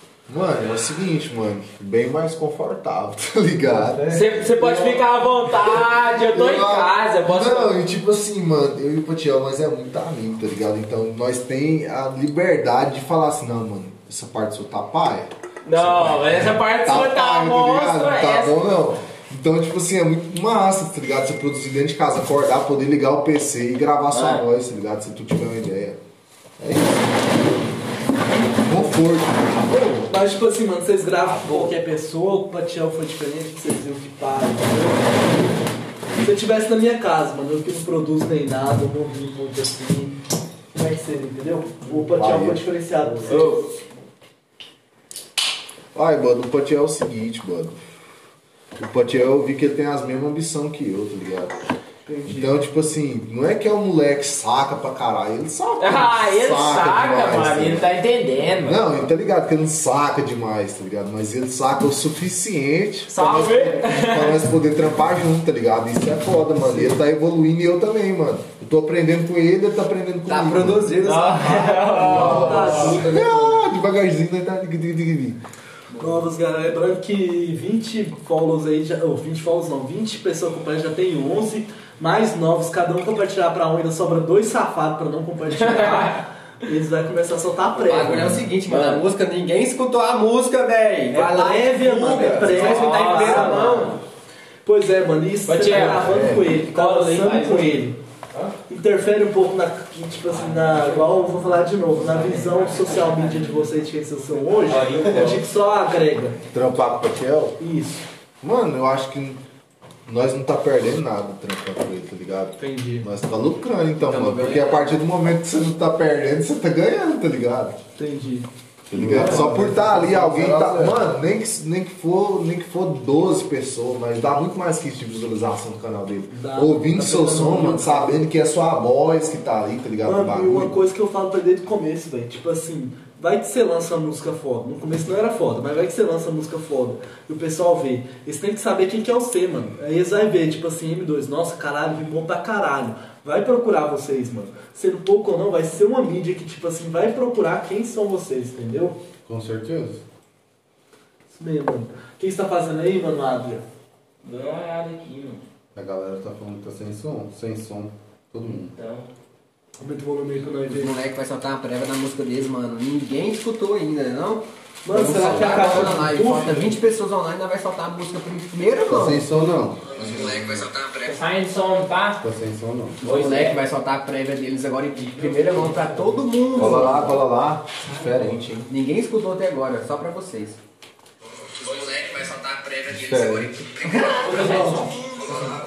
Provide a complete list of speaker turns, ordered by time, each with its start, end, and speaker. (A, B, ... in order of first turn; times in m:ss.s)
0:00.3-0:26.0 A
0:04.1-0:07.8 B
0:15.6-0:18.6 B
0:24.1-0:24.4 B
0:26.6-0:27.4 A
0:28.6-0:30.1 A
0:30.1-0:35.6 C
0:31.3-0:31.7 B
0:36.1-0:40.2 C
0:40.7-0:43.7 C
0:42.0-0:42.6 A
0:43.3-0:43.7 B
0:45.9-0:47.8 A
0:48.8-0:51.5 A
0:52.1-0:52.6 C
0:52.3-0:57.9 A
0:55.8-0:58.8 B
0:58.6-1:11.0 A
1:03.1-1:04.5 B
1:10.3-1:13.6 D
1:11.0-1:13.0 B
1:11.3-1:13.1 C
1:12.1-1:15.4 A
1:12.1-1:12.9 E
1:16.0-1:28.4 C
1:25.6-1:26.2 B
1:27.7-1:34.0 D
1:28.7-1:29.0 B
1:31.1-1:33.8 C
1:32.5-1:34.0 B
1:34.6-1:38.0 C
1:35.5-1:37.8 B
1:38.7-1:46.4 C
1:44.7-1:45.4 B
1:46.5-1:47.6 A
1:47.6-1:48.0 C
1:48.4-1:49.4 A
1:50.1-1:57.8 A
1:52.6-1:53.1 C
1:54.0-1:55.0 D
1:58.0-1:58.5 C
1:58.9-2:01.1 E
1:58.9-2:10.8 A
1:59.0-1:59.8 C
2:06.3-2:08.2 C
2:10.0-2:29.0 C
2:29.3-2:30.0 E
2:31.3-2:33.6 C
2:34.2-2:35.4 B
2:35.8-2:38.7 E
2:38.8-2:39.1 B
2:39.8-2:41.0 C
2:40.7-2:49.2 D
2:44.8-2:46.7 C
2:45.0-2:46.2 E
2:48.9-2:50.7 E
2:50.1-2:51.1 D
2:51.0-2:52.2 B
2:52.2-2:53.0 E
2:53.0-2:53.6 B
2:53.0-2:57.2 D
2:56.6-2:58.7 A
2:56.6-2:57.1 E
2:58.7-3:00.6 D
3:01.6-3:04.8 D
3:02.9-3:04.0 A
3:04.2-3:05.0 B
3:04.2-3:04.9 C